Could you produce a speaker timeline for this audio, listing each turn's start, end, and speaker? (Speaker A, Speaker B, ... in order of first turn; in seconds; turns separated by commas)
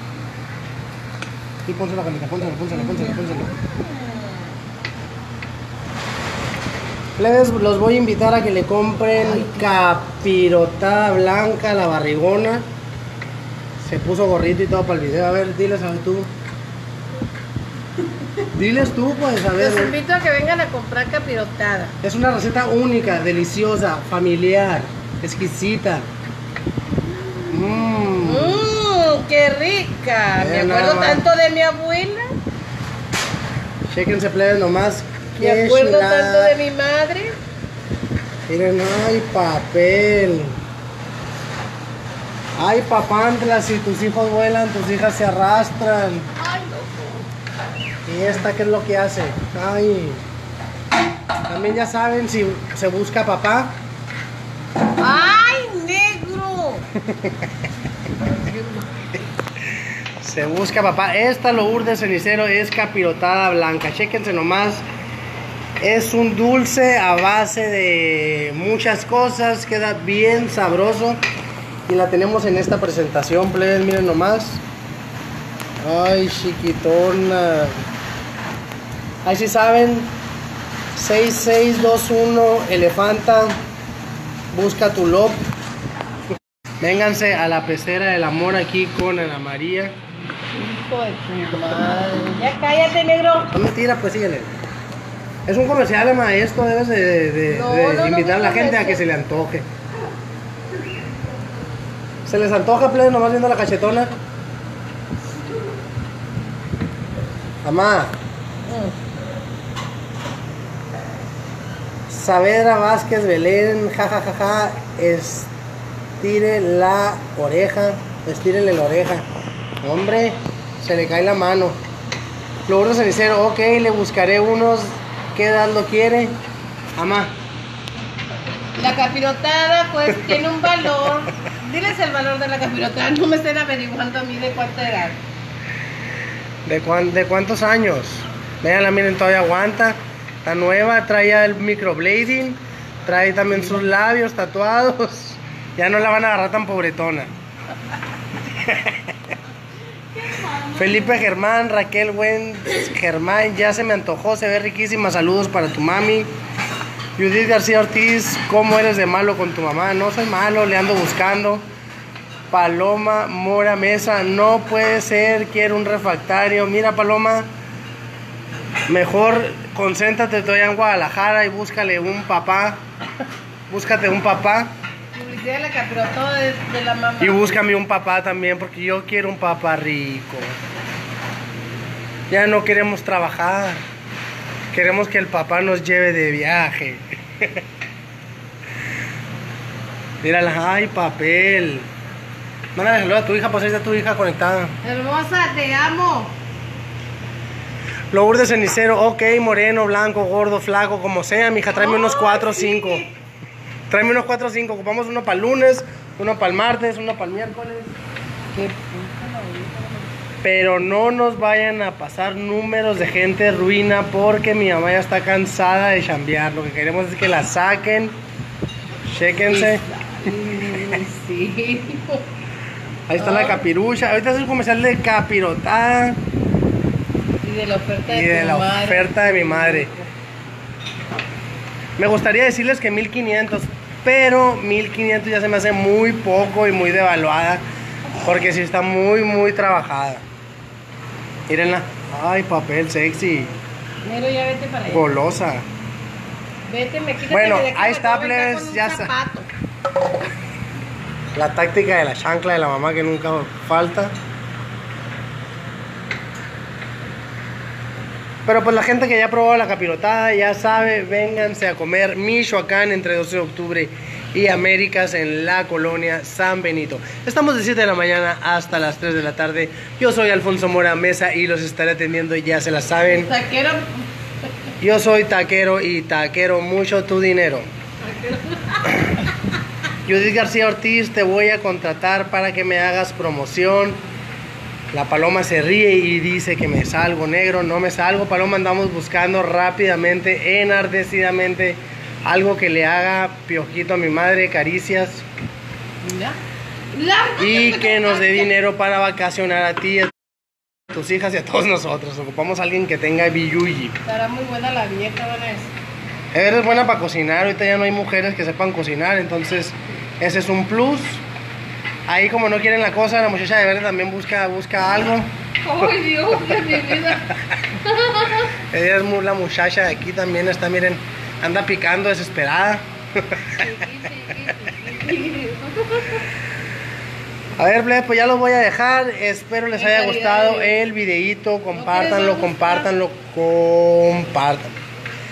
Speaker A: 1.7-3.5, Speaker A: 7.2-12.7, Speaker A: 13.8-16.3, Speaker A: 18.5-19.9, Speaker B: 19.6-22.0, Speaker A: 22.0-26.1, Speaker A: 27.5-28.7, Speaker B: 28.2-32.3, Speaker A: 30.4-31.2, Speaker A: 33.9-36.6, Speaker B: 35.4-37.4, Speaker A: 38.5-40.6, Speaker A: 42.6-46.3, Speaker B: 46.4-47.1, Speaker A: 48.1-50.2, Speaker A: 51.5-53.8, Speaker B: 55.0-56.8, Speaker A: 57.0-57.4, Speaker B: 58.4-58.9, Speaker A: 60.2-64.8, Speaker A: 65.8-71.2, Speaker A: 71.9-74.6, Speaker A: 75.8-77.8, Speaker A: 79.2-80.1, Speaker A: 80.9-83.5, Speaker A: 84.5-85.4, Speaker A: 86.8-90.0, Speaker B: 90.5-93.5, Speaker A: 93.5-94.5, Speaker A: 95.5-99.7, Speaker B: 97.5-99.0, Speaker A: 102.2-104.1, Speaker A: 107.6-108.2, Speaker B: 108.7-108.9, Speaker A: 112.1-115.5, Speaker A: 116.2-119.3, Speaker A: 119.8-121.8, Speaker A: 122.7-126.4, Speaker A: 127.0-127.3, Speaker B: 128.8-135.2, Speaker A: 136.7-147.3, Speaker A: 148.6-149.0, Speaker B: 150.2-150.6, Speaker A: 150.7-156.3, Speaker A: 157.2-161.7, Speaker A: 162.5-167.5, Speaker A: 168.9-172.8, Speaker A: 173.7-174.7, Speaker B: 175.1-177.6, Speaker A: 177.2-180.6, Speaker A: 182.3-183.8, Speaker A: 184.7-187.6, Speaker A: 190.2-191.9, Speaker A: 192.8-194.8, Speaker B: 194.8-196.3, Speaker A: 198.1-203.1, Speaker B: 201.7-203.1, Speaker A: 203.9-207.9, Speaker B: 208.5-210.1, Speaker A: 210.4-218.2, Speaker A: 219.1-219.8, Speaker B: 219.4-222.2, Speaker A: 223.1-226.2, Speaker B: 223.2-223.6, Speaker B: 227.4-230.1, Speaker A: 228.1-229.9, Speaker A: 232.0-237.6, Speaker A: 238.2-240.2, Speaker A: 241.5-243.5, Speaker B: 244.0-245.1, Speaker A: 244.9-245.7, Speaker B: 246.7-249.5, Speaker A: 247.3-249.1, Speaker A: 251.3-254.2, Speaker A: 258.5-273.3, Speaker B: 273.1-274.0, Speaker A: 274.8-277.7, Speaker B: 278.0-279.0, Speaker A: 280.1-284.0, Speaker A: 284.9-295.2, Speaker B: 296.0-296.4, Speaker B: 296.9-298.5, Speaker A: 297.4-300.1, Speaker A: 300.9-304.0, Speaker B: 304.1-305.7, Speaker A: 306.3-311.2, Speaker A: 312.1-315.9, Speaker B: 315.6-317.3, Speaker A: 316.6-317.5, Speaker B: 317.9-318.4, Speaker A: 318.4-323.8, Speaker B: 323.6-326.2, Speaker A: 327.6-334.8, Speaker B: 329.8-330.8, Speaker B: 331.7-332.9